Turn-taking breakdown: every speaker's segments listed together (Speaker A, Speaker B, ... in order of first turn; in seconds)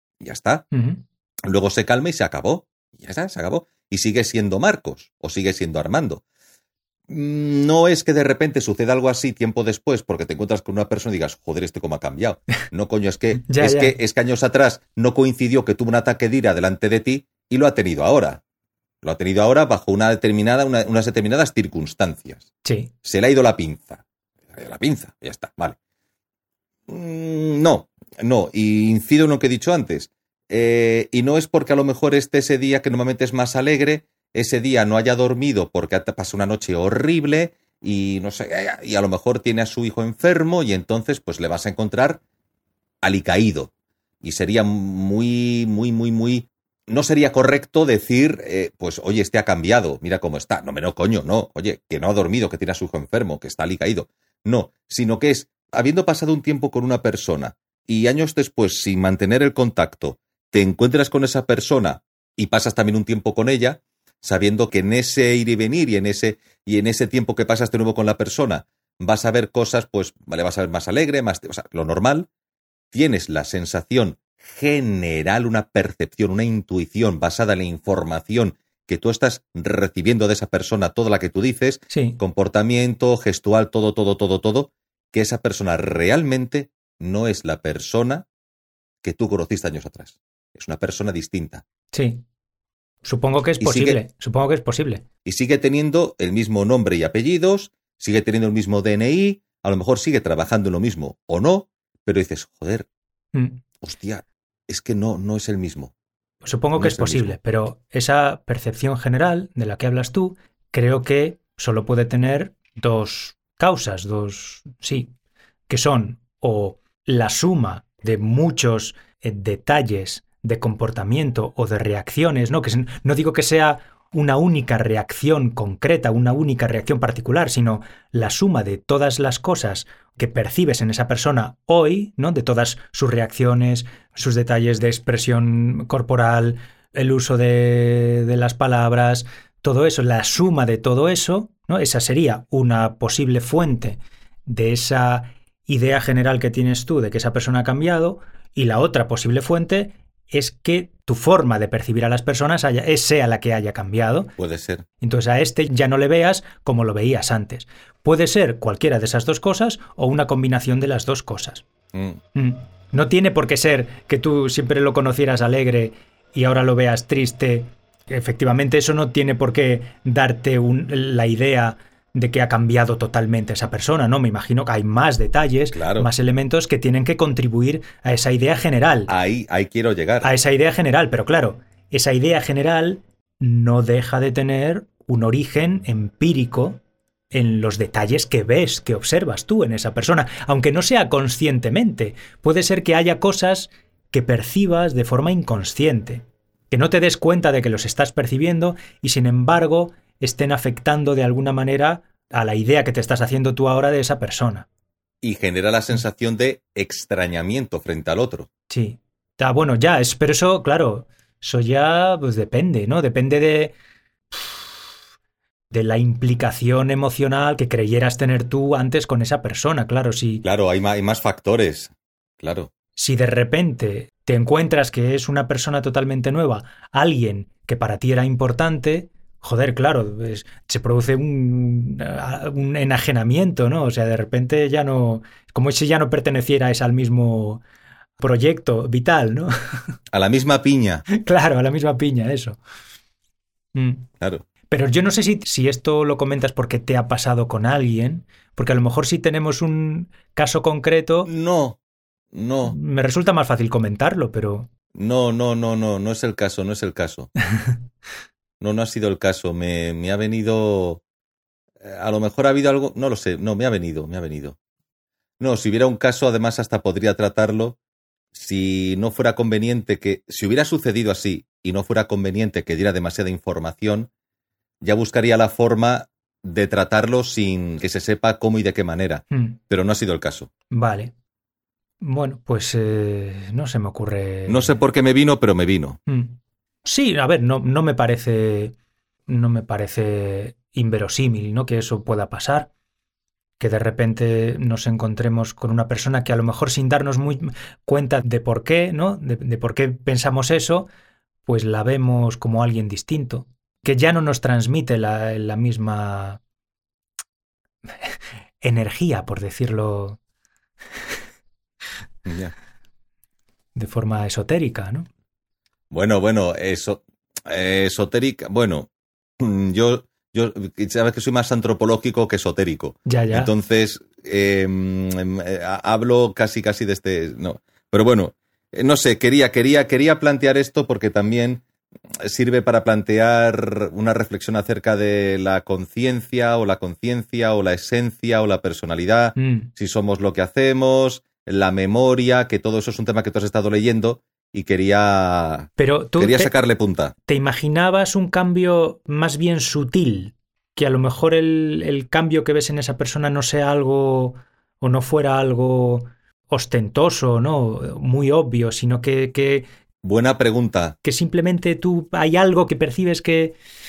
Speaker A: 0.2-0.7, 1.5-6.2, 7.1-18.4, 19.0-22.5, 23.0-25.8, 26.9-42.2, 43.0-43.7, 44.2-72.3, 72.9-88.2, 89.0-91.6, 93.6-94.0, 95.2-102.9, 103.8-105.9, 106.8-107.4, 154.4-154.8, 161.9-162.2, 175.7-176.1, 179.1-180.3, 205.2-208.5, 220.4-222.7, 240.1-241.1, 251.3-251.8, 252.3-252.8, 254.9-257.3, 258.6-261.0, 261.8-264.6, 265.4-267.8, 268.3-274.1, 274.8-280.5, 284.5-286.0, 312.3-312.5, 315.9-331.6, 332.2-347.1, 360.0-361.0
Speaker B: 0.7-1.0, 13.4-13.9, 22.6-22.9, 81.9-82.2, 91.9-92.2, 93.0-95.0, 103.3-103.6, 106.4-115.1, 115.7-154.3, 155.0-161.7, 162.3-179.1, 180.2-186.8, 187.3-204.7, 208.7-213.7, 214.3-214.6, 215.7-220.4, 223.0-237.6, 238.2-239.5, 241.1-242.6, 243.8-244.1, 244.7-251.3, 252.7-254.7, 279.3-279.6, 280.7-281.1, 282.0-284.7, 286.1-288.8, 289.3-292.7, 293.6-300.9, 301.5-306.4, 308.0-310.2, 313.8-315.1, 323.1-323.5, 339.4-339.7, 345.8-346.5, 347.3-359.7, 361.0-363.6